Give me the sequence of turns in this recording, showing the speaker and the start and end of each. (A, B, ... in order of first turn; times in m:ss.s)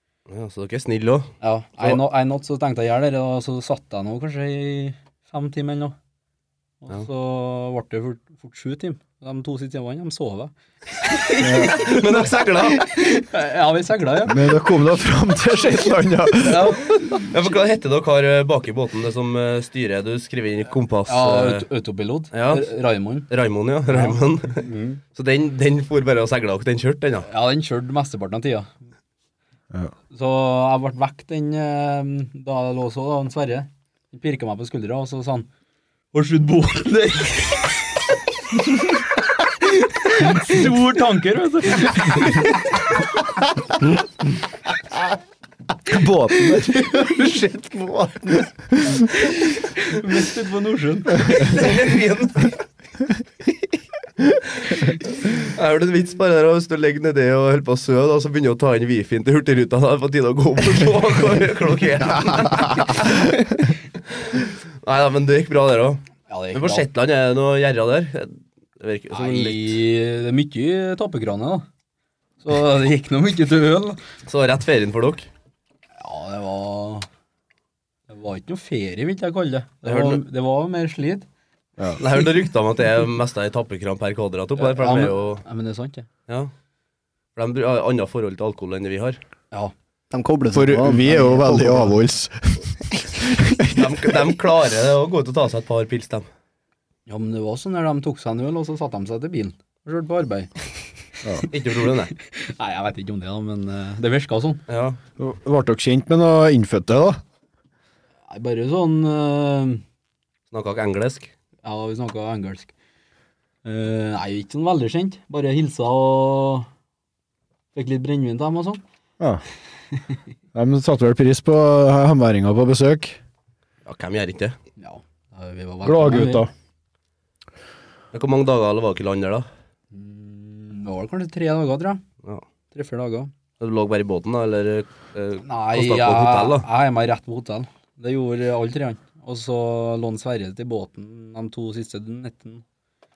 0:00.3-0:02.0 A
0:01.4-0:06.0 B
0:06.8-0:14.5 B
0:11.4-0:11.8 C
0:11.4-0:12.9 A
0:14.3-0:16.8 C
0:16.4-0:17.3 B
0:17.3-0:21.6 A
0:21.1-0:23.3 B
0:22.3-0:22.7 A
0:23.3-0:24.6 A
0:23.9-0:25.0 B
0:25.1-0:27.3 A
0:27.3-0:28.7 B
0:30.1-0:35.5 B
0:36.1-0:37.8 B
0:39.8-0:42.6 B
0:45.9-0:46.7 C
0:46.6-0:48.5 D
0:49.8-0:51.6 B
0:51.4-0:52.6 A
0:55.3-1:03.2 A
1:04.2-1:06.0 A
1:06.3-1:06.9 B
1:06.5-1:09.8 A
1:09.1-1:11.6 B
1:12.4-1:14.0 B
1:14.3-1:15.3 A
1:16.0-1:17.1 B
1:18.1-1:21.3 B
1:19.8-1:20.2 A
1:22.0-1:25.4 A
1:24.6-1:26.1 B
1:26.3-1:26.5 A
1:27.4-1:29.2 A
1:30.1-1:32.0 D
1:30.5-1:33.6 C
1:33.7-1:36.3 A
1:37.1-1:40.5 B
1:41.5-1:42.1 A
1:42.3-1:44.6 B
1:44.7-1:45.0 A
1:45.2-1:47.2 C
1:48.3-1:49.8 B
1:50.5-1:51.3 A
1:51.6-1:52.7 B
1:53.6-1:56.7 B
1:57.7-1:58.8 B
2:00.5-2:03.2 C
2:03.9-2:04.6 A
2:04.8-2:06.5 B
2:05.8-2:06.5 C
2:08.1-2:09.5 A
2:09.9-2:12.0 B
2:12.7-2:13.3 B
2:13.6-2:16.7 A
2:15.4-2:22.6 B